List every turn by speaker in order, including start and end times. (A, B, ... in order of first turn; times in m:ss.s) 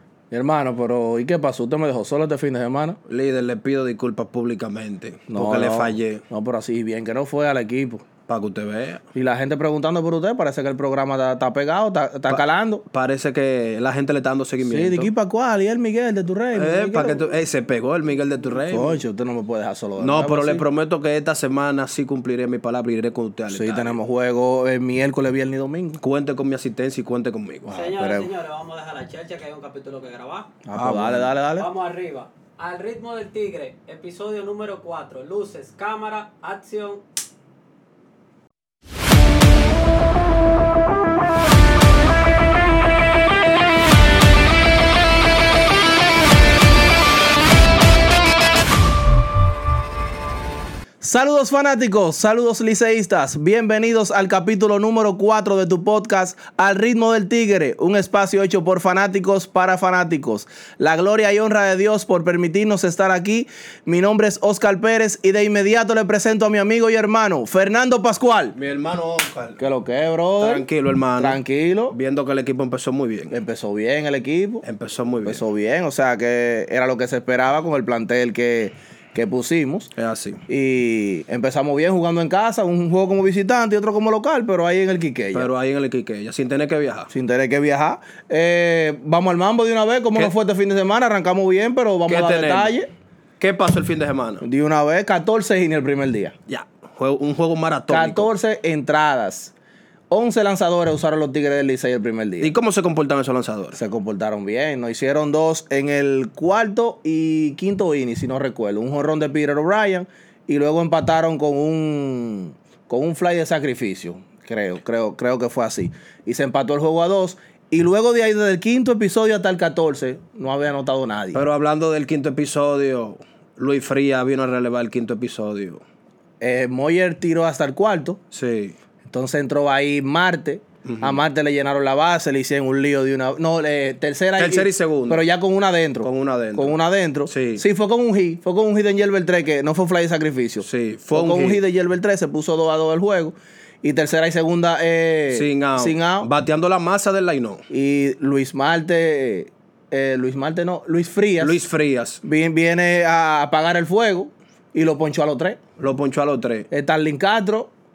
0:00.3-0:03.0 A
0:03.1-0:06.2 B
0:05.3-0:08.1 A
0:08.3-0:09.0 B
0:09.2-0:12.8 A
0:12.3-0:15.1 B
0:14.6-0:17.4 A
0:16.5-0:19.0 B
0:18.7-0:20.7 A
0:20.0-0:24.0 B
0:23.5-0:26.0 A
0:26.0-0:27.7 B
0:27.7-0:28.3 A
0:27.7-0:30.5 C
0:30.6-0:31.7 A
0:30.8-0:31.3 B
0:31.6-0:37.0 C
0:51.0-1:08.6 A
1:08.6-1:09.6 B
1:09.6-1:10.7 A
1:10.4-1:13.4 B
1:11.2-1:12.0 A
1:13.3-1:14.7 A
1:14.6-1:15.4 B
1:15.2-1:19.9 A
1:20.0-1:20.4 B
1:20.5-1:25.5 A
1:25.3-1:27.1 B
1:27.1-1:32.9 A
1:32.1-1:32.8 B
1:33.4-1:34.4 B
1:34.4-1:36.4 A
1:36.5-1:38.3 B
1:37.9-1:39.5 A
1:40.1-1:42.5 A
1:42.4-1:43.8 B
1:43.7-2:01.4 A
2:01.3-2:05.8 B
2:06.4-2:08.2 A
2:08.3-2:08.8 B
2:09.1-2:26.3 A
2:10.8-2:11.2 B
2:14.4-2:15.2 B
2:16.0-2:16.8 B
2:17.3-2:17.6 B
2:20.6-2:21.6 B
2:25.3-2:27.6 B
2:27.7-2:31.6 A
2:31.4-2:32.2 B
2:32.2-2:35.6 A
2:35.8-2:36.7 B
2:36.7-2:37.7 A